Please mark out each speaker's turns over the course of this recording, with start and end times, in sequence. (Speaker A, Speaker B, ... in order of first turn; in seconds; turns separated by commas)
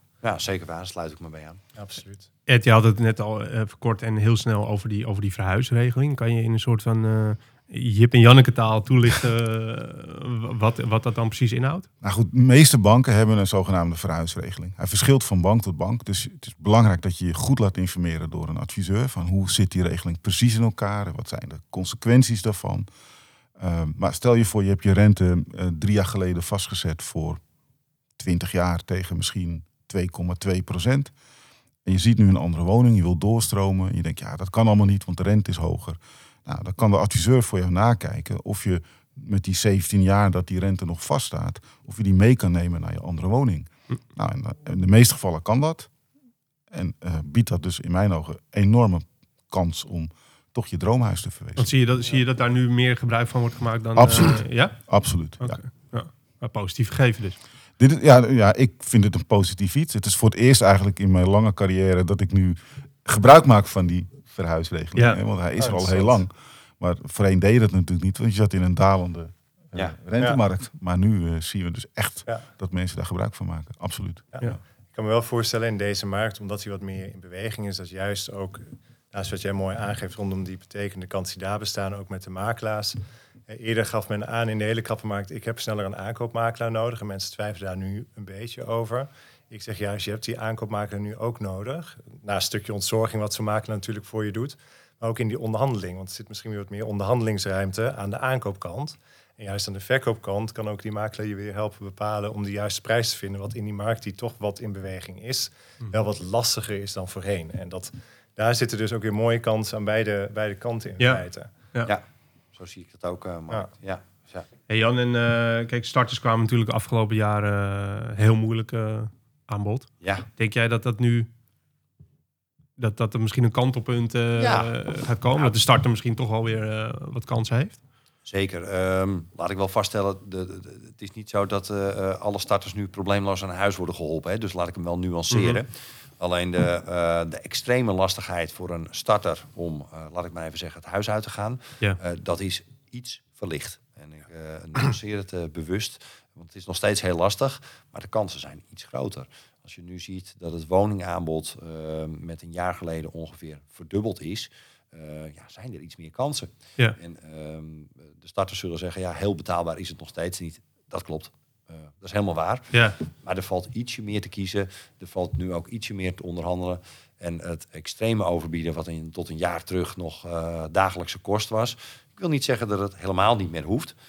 Speaker A: 0.2-1.6, Speaker B: 1.8-2.3, Speaker C: 2.5-11.9, Speaker D: 12.0-22.9, Speaker D: 23.6-27.4, Speaker D: 28.2-31.1, Speaker D: 31.9-45.9, Speaker D: 46.7-51.7, Speaker C: 51.6-57.4, Speaker D: 54.0-55.6, Speaker D: 57.8-74.3, Speaker C: 65.0-65.2, Speaker B: 65.6-66.2, Speaker B: 74.4-83.0, Speaker B: 83.5-111.5, Speaker A: 112.5-114.5, Speaker C: 114.7-121.3, Speaker A: 120.0-120.3, Speaker C: 122.8-127.8, Speaker A: 124.4-125.6, Speaker A: 128.2-173.9, Speaker C: 135.3-135.6, Speaker C: 162.7-163.0